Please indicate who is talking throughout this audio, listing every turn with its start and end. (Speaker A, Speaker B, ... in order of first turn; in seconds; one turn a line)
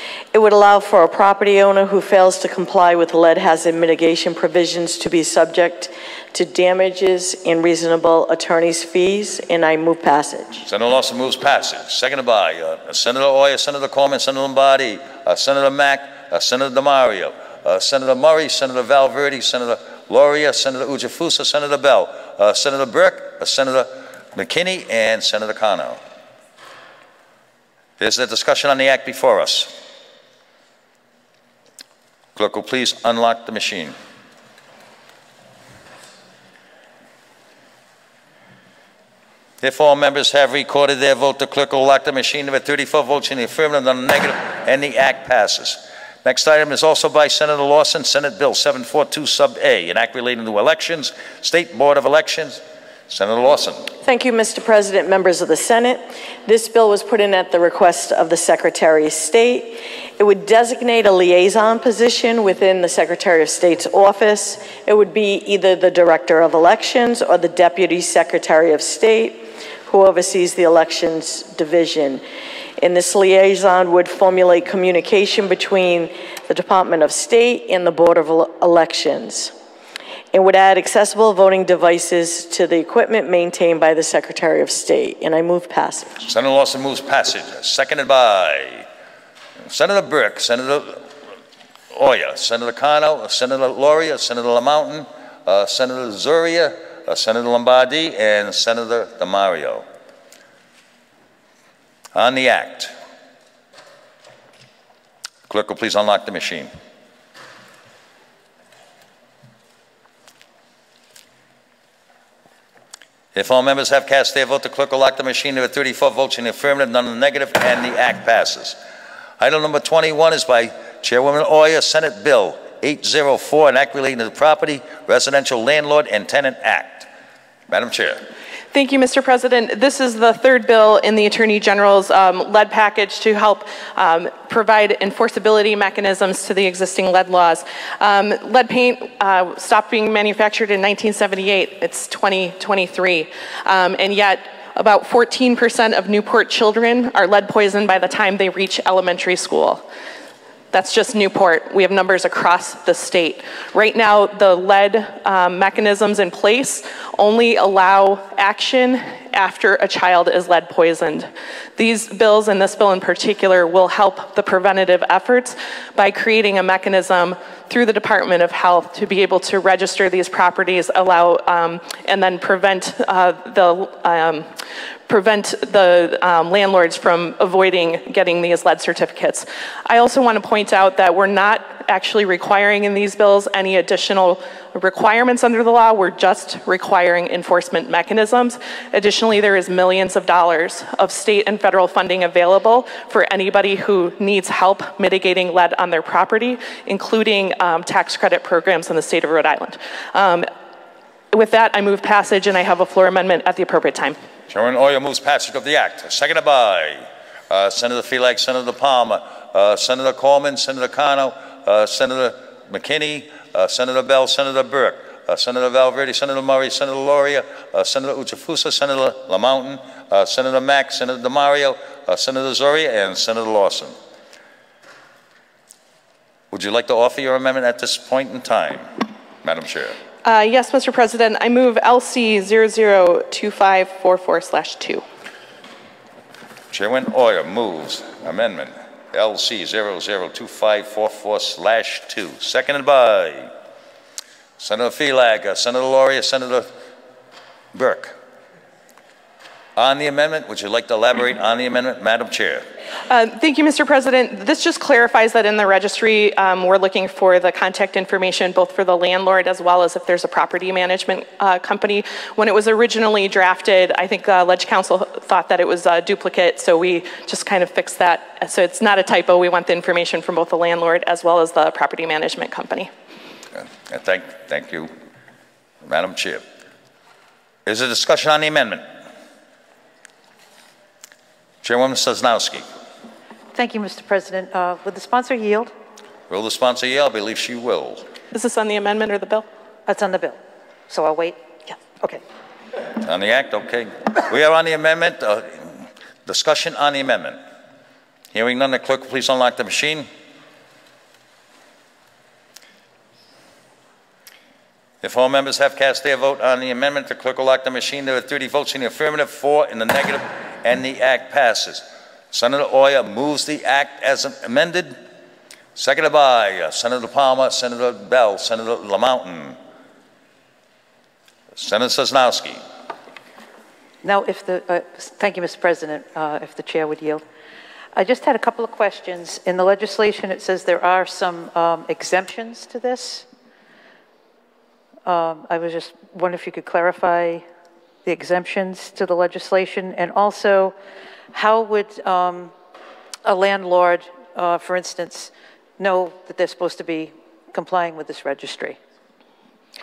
Speaker A: 0.3-10.6
Speaker B: 10.7-26.0
Speaker B: 28.0-29.7
Speaker B: 32.4-33.9
Speaker B: 39.6-53.9
Speaker A: 54.0-72.2
Speaker A: 72.8-79.5
Speaker A: 80.3-86.2
Speaker B: 86.2-88.8
Speaker B: 89.7-91.0
Speaker B: 91.9-99.8
Speaker B: 102.1-102.9
Speaker B: 105.5-106.7
Speaker B: 113.3-118.8
Speaker B: 119.4-127.1
Speaker B: 127.7-128.2
Speaker C: 128.7-149.8
Speaker C: 150.7-174.5
Speaker C: 175.1-200.5
Speaker C: 201.3-204.2
Speaker B: 204.5-223.9
Speaker B: 226.5-228.9
Speaker B: 229.4-229.9
Speaker C: 230.2-235.0
Speaker B: 236.7-243.5
Speaker B: 244.6-246.7
Speaker B: 247.7-248.2
Speaker B: 249.8-252.6
Speaker C: 253.1-272.9
Speaker B: 273.6-274.9
Speaker B: 275.9-276.4
Speaker B: 277.6-278.8
Speaker B: 281.6-282.6
Speaker D: 283.5-285.7
Speaker B: 286.3-288.0
Speaker C: 288.3-289.5
Speaker D: 289.9-292.2
Speaker B: 293.0-297.4
Speaker B: 298.3-300.1
Speaker B: 305.0-315.0
Speaker B: 315.8-319.6
Speaker B: 321.6-322.6
Speaker D: 324.0-327.2
Speaker D: 327.9-333.3
Speaker D: 335.0-337.4
Speaker D: 338.0-340.8
Speaker D: 341.3-342.5
Speaker D: 343.2-348.8